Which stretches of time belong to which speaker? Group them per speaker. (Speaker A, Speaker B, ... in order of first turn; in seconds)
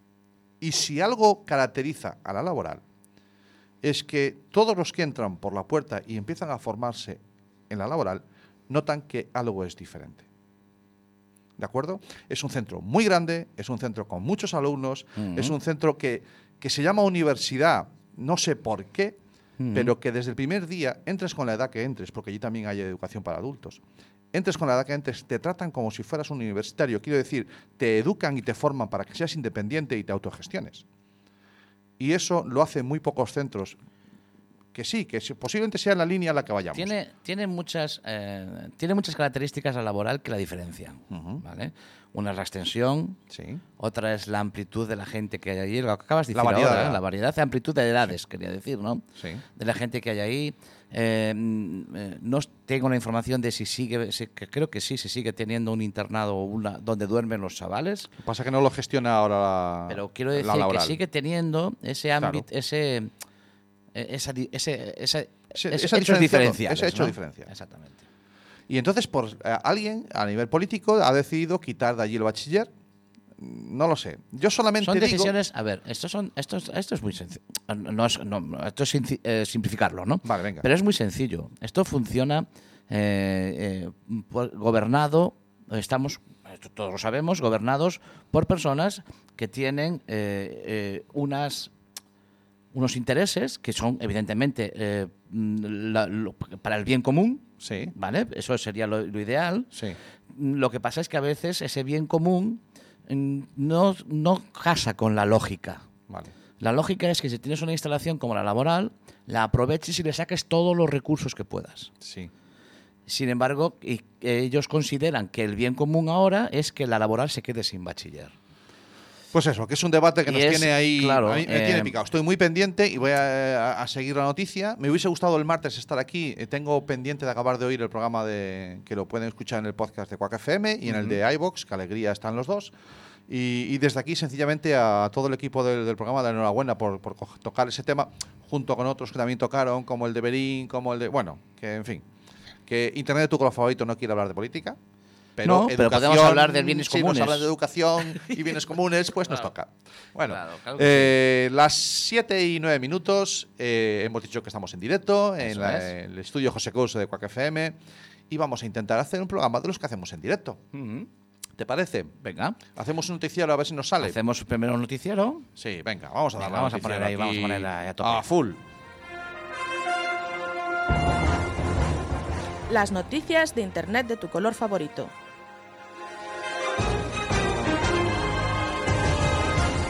Speaker A: 0.6-2.8, 3.8-10.2, 11.6-19.2, 19.7-23.8, 24.3-30.8, 32.0-33.8, 34.7-36.9, 41.1-41.4, 43.3-43.6, 46.3-47.0, 49.2-49.4, 58.2-61.0, 62.2-62.4, 65.5-67.5, 68.7-72.7, 73.4-75.3, 80.2-80.7, 97.6-97.9, 99.7-100.0, 112.0-112.3, 119.3-132.7, 133.3-142.0, 142.7-144.8, 145.4-157.8, 158.3-160.6, 161.6-162.1, 162.7-164.2, 165.6-168.6
Speaker B: 15.2-15.5, 19.6-19.9, 36.7-43.2, 43.8-49.0, 49.5-58.1, 59.9-63.1, 63.9-68.0, 74.8-91.7, 92.7-99.7, 100.3-105.8, 106.6-111.9, 113.1-118.3, 120.2-121.9, 130.9-131.2, 145.4-147.5, 150.2-151.2, 155.4-155.9, 160.7-161.1, 162.2-162.6, 164.0-165.4, 166.4-168.2
Speaker C: 172.7-175.1